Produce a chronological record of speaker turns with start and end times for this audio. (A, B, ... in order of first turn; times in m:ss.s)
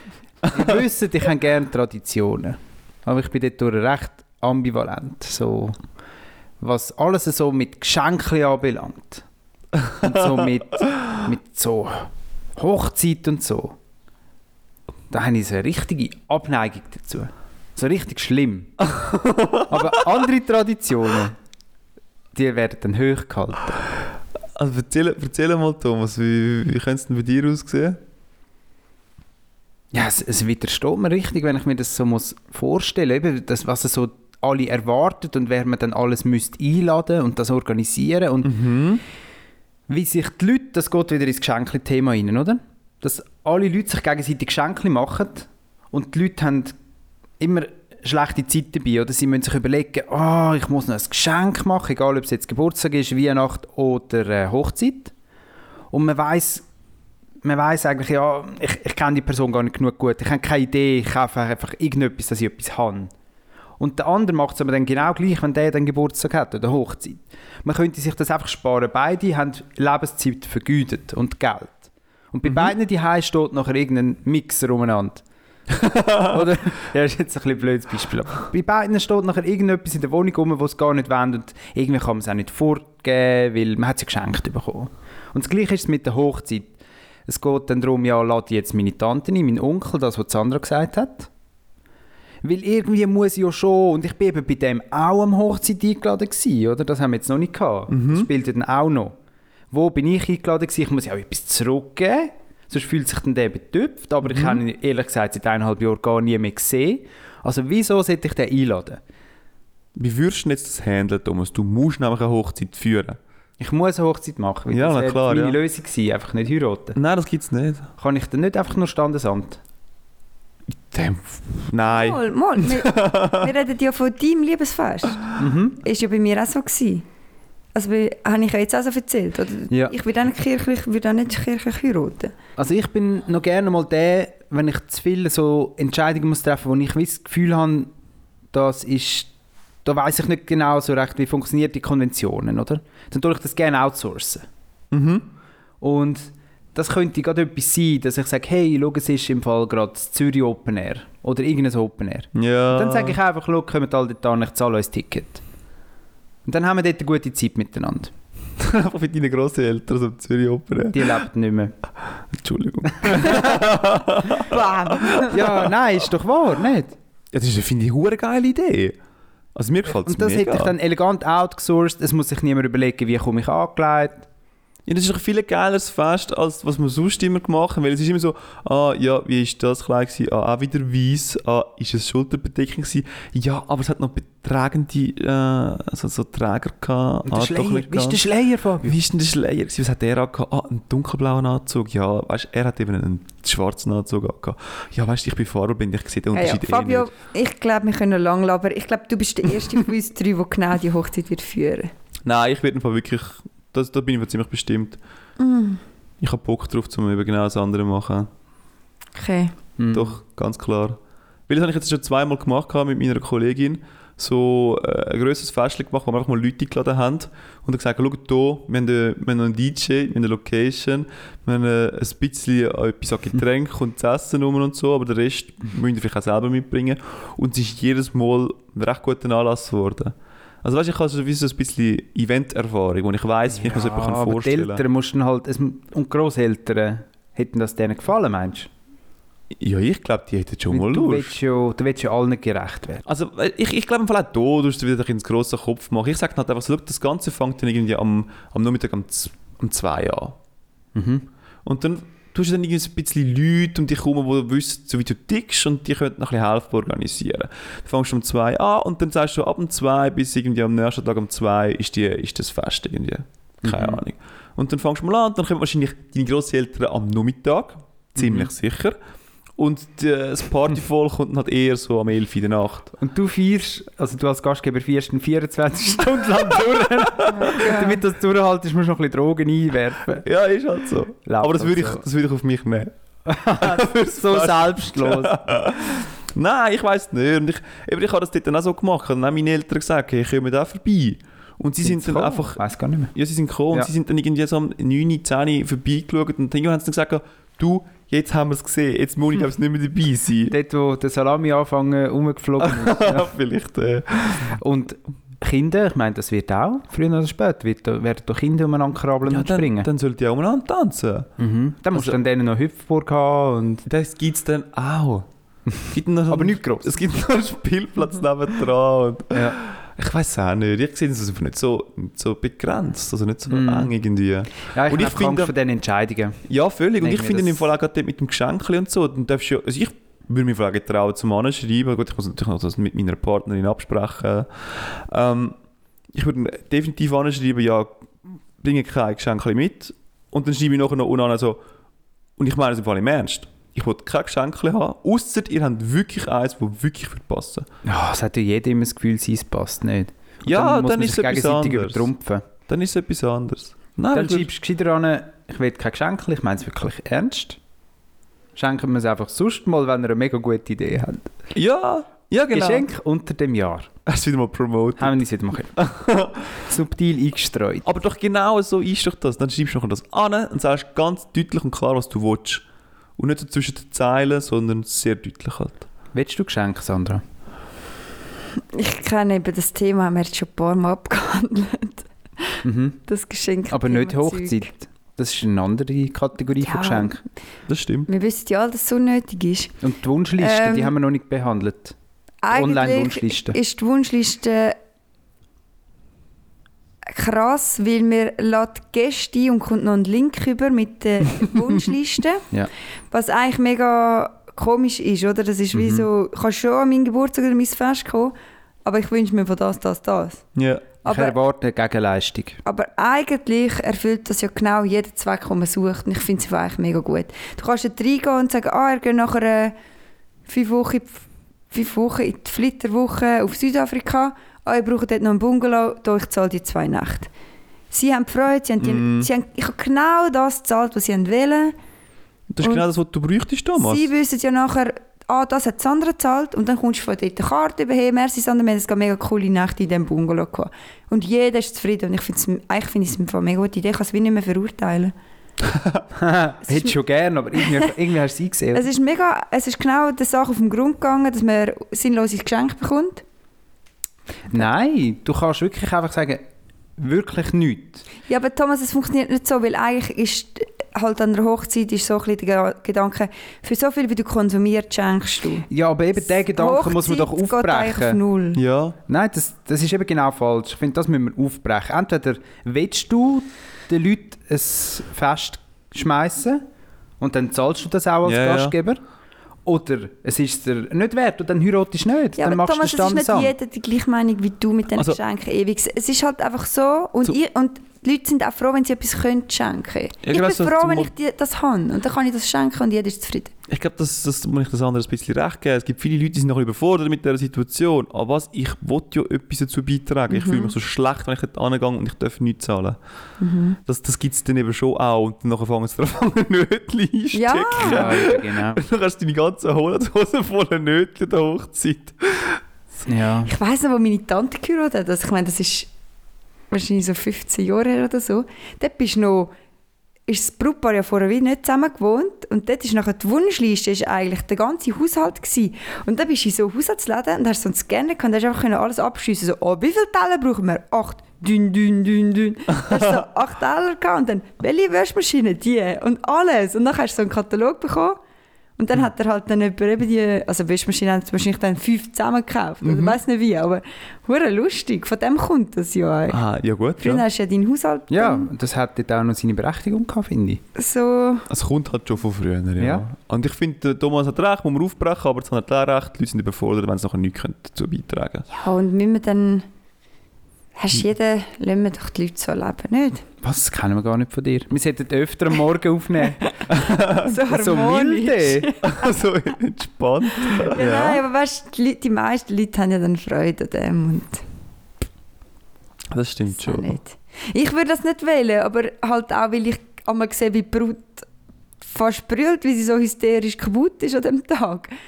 0:00.4-0:00.8 A
0:00.5-0:05.8 B
0:06.6-0:09.2 B
0:10.0-0:13.8 B
0:15.1-0:18.8 B
0:18.8-0:20.0 A
0:19.7-0:21.4 B
0:22.3-0:23.8 B
0:24.6-0:28.0 A
0:29.9-0:38.6 B
0:38.4-0:39.0 A
0:39.9-0:46.8 B
0:47.4-0:55.1 B
0:55.9-0:56.6 B
0:57.4-1:03.1 B
1:03.8-1:15.2 B
1:12.4-1:12.7 A
1:15.7-1:16.3 A
1:16.1-1:31.3 B
1:32.4-1:39.2 B
1:37.9-1:38.3 A
1:39.7-1:49.0 B
1:44.2-1:44.6 A
1:50.0-1:53.2 A
1:53.6-1:57.0 B
1:54.7-1:55.6 A
1:57.0-1:57.9 A
1:58.0-1:59.6 B
2:00.9-2:03.5 A
2:01.9-2:07.0 C
2:05.4-2:05.8 B
2:07.8-2:12.3 C
2:12.6-2:17.9 B
2:18.5-2:19.3 B
2:19.8-2:24.5 B
2:24.9-2:25.3 A
2:25.8-2:35.4 B
2:32.3-2:33.2 A
2:36.5-2:38.1 B
2:38.6-2:41.2 A
2:40.9-2:41.7 B
2:42.3-2:45.7 A
2:43.0-2:43.4 B
2:44.4-2:45.4 C
2:45.2-2:47.0 B
2:47.3-2:49.0 A
2:49.6-2:50.8 A
2:49.9-2:54.3 B
2:54.9-3:08.2 A
3:07.3-3:09.0 B
3:08.8-3:17.1 A
3:16.3-3:21.9 C
3:22.2-3:25.0 A
3:25.4-3:25.8 C
3:26.2-3:28.3 A
3:29.2-3:29.6 C
3:29.8-3:30.2 B
3:29.9-3:54.8 A
3:53.5-3:58.7 B
3:59.5-4:01.4 A
4:00.7-4:03.0 B
4:03.1-4:10.4 A
4:11.0-4:11.3 B
4:11.6-4:29.0 A
4:23.6-4:24.0 B
4:28.2-4:28.5 B
4:29.6-4:32.9 A
4:33.0-4:40.3 B
4:37.3-4:38.0 C
4:40.2-4:42.9 A
4:41.2-4:42.0 B
4:43.3-4:45.4 B
4:43.5-5:00.5 A
4:51.8-4:53.1 B
5:00.5-5:03.3 B
5:02.6-5:04.6 A
5:04.5-5:09.9 B
5:09.3-5:11.3 A
5:11.4-5:13.8 B
5:11.9-5:12.2 A
5:13.9-5:15.3 A
5:15.9-5:25.5 A
5:16.3-5:17.0 B
5:19.3-5:19.6 B
5:23.5-5:23.9 B
5:24.7-5:26.4 B
5:26.5-5:35.6 A
5:27.0-5:27.6 B
5:36.1-5:41.6 A
5:42.4-5:47.7 A
5:47.8-5:52.5 B
5:50.5-5:52.1 A
5:52.6-5:54.5 A
5:54.1-5:57.6 B
5:58.6-6:01.3 B
6:01.5-6:02.9 A
6:02.5-6:03.9 B
6:04.1-6:05.2 A
6:05.0-6:05.8 B
6:05.7-6:06.6 A
6:06.5-6:07.9 B
6:07.8-6:12.6 A
6:13.2-6:15.8 A
6:16.1-6:17.2 B
6:18.7-6:24.7 C
6:22.6-6:23.0 B
6:23.7-6:27.2 B
6:26.6-6:27.2 C
6:27.7-6:28.1 A
6:28.1-6:29.8 C
6:29.8-6:32.0 B
6:30.4-6:30.9 C
6:32.4-6:34.8 C
6:32.5-6:33.6 B
6:37.1-6:42.5 C
6:43.1-6:48.3 C
6:45.7-6:46.1 B
6:48.8-6:50.4 C
6:50.6-6:50.9 A
6:51.0-6:51.4 C
6:51.1-6:52.6 B
6:52.6-6:59.7 C
7:00.5-7:07.3 C
7:07.9-7:11.8 C
7:08.8-7:09.3 A
7:12.5-7:14.1 A
7:13.8-7:25.1 C
7:25.6-7:26.0 A
7:26.1-7:28.9 B
7:27.7-7:27.9 C
7:28.7-7:33.2 C
7:34.5-7:36.5 B
7:37.0-7:38.0 B
7:38.3-7:45.7 C
7:45.7-7:48.2 B
7:46.3-7:48.6 C
7:48.6-7:49.0 A
7:49.1-7:56.6 B
7:57.2-7:59.0 B
7:58.2-7:58.8 A
7:59.7-8:03.5 B
8:02.4-8:13.5 C
8:10.2-8:11.1 A
8:13.7-8:23.0 A
8:20.3-8:20.7 C
8:23.4-8:23.8 C
8:23.9-8:32.6 A
8:27.3-8:28.2 C
8:27.8-8:28.8 B
8:33.1-8:33.5 B
8:33.4-8:35.9 C
8:36.7-8:39.5 C
8:40.3-8:58.2 C
8:58.8-9:06.4 C
9:02.8-9:03.2 A
9:06.3-9:07.2 A
9:07.0-9:08.5 C
9:08.1-9:10.6 B
9:10.8-9:11.5 C
9:11.5-9:18.5 A
9:12.8-9:13.0 B
9:18.5-9:19.7 C
9:20.8-9:23.2 C
9:23.4-9:26.8 B
9:26.7-9:27.3 A
9:27.1-9:29.0 C
9:27.3-9:28.7 B
9:28.8-9:31.2 A
9:30.5-9:34.4 C
9:36.1-9:36.9 A
9:36.6-9:41.3 C
9:41.8-9:44.9 C